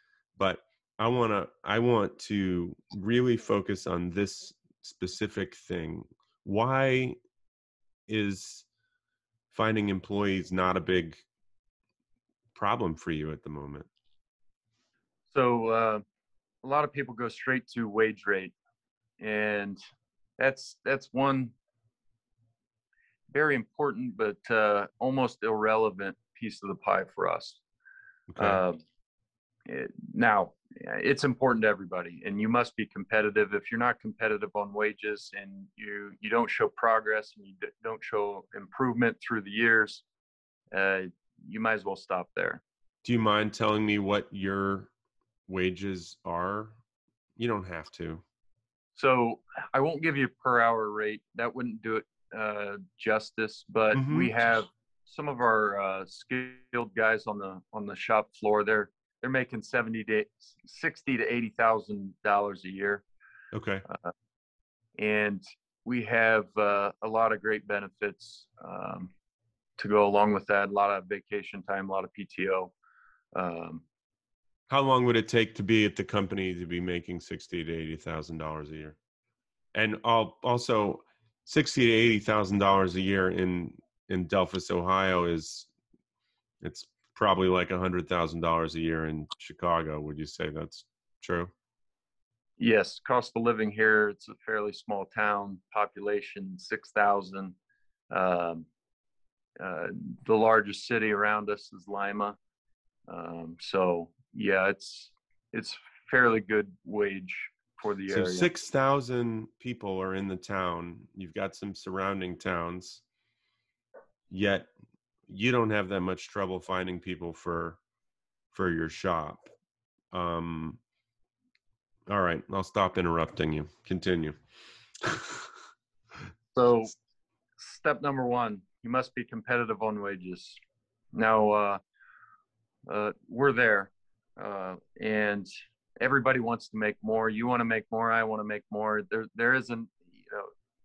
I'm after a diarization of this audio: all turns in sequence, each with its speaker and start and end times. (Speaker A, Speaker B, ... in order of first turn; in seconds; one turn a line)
Speaker A: 0.4-7.2
Speaker A: 8.1-8.7
Speaker A: 9.5-11.2
Speaker A: 12.5-13.9
Speaker B: 15.3-16.0
Speaker B: 16.6-18.5
Speaker B: 19.2-19.8
Speaker B: 20.4-21.5
Speaker B: 23.3-27.6
Speaker A: 28.3-28.6
Speaker B: 28.4-28.8
Speaker B: 29.6-40.0
Speaker B: 40.7-42.6
Speaker A: 43.0-44.9
Speaker A: 45.5-46.8
Speaker A: 47.4-48.2
Speaker B: 48.9-63.0
Speaker A: 53.9-54.3
Speaker A: 63.5-63.9
Speaker B: 65.0-69.1
Speaker B: 69.8-72.7
Speaker B: 73.3-73.8
Speaker A: 74.7-79.0
Speaker A: 79.7-85.7
Speaker A: 86.6-91.5
Speaker B: 92.6-97.5
Speaker B: 98.1-98.7
Speaker B: 99.6-102.4
Speaker B: 103.1-108.5
Speaker A: 108.1-113.0
Speaker A: 114.3-114.7
Speaker A: 115.3-117.8
Speaker A: 118.5-119.5
Speaker A: 120.1-120.8
Speaker A: 122.1-124.4
Speaker A: 125.0-125.5
Speaker B: 126.5-126.9
Speaker B: 127.6-130.6
Speaker B: 131.1-131.8
Speaker B: 132.9-135.5
Speaker B: 136.0-140.5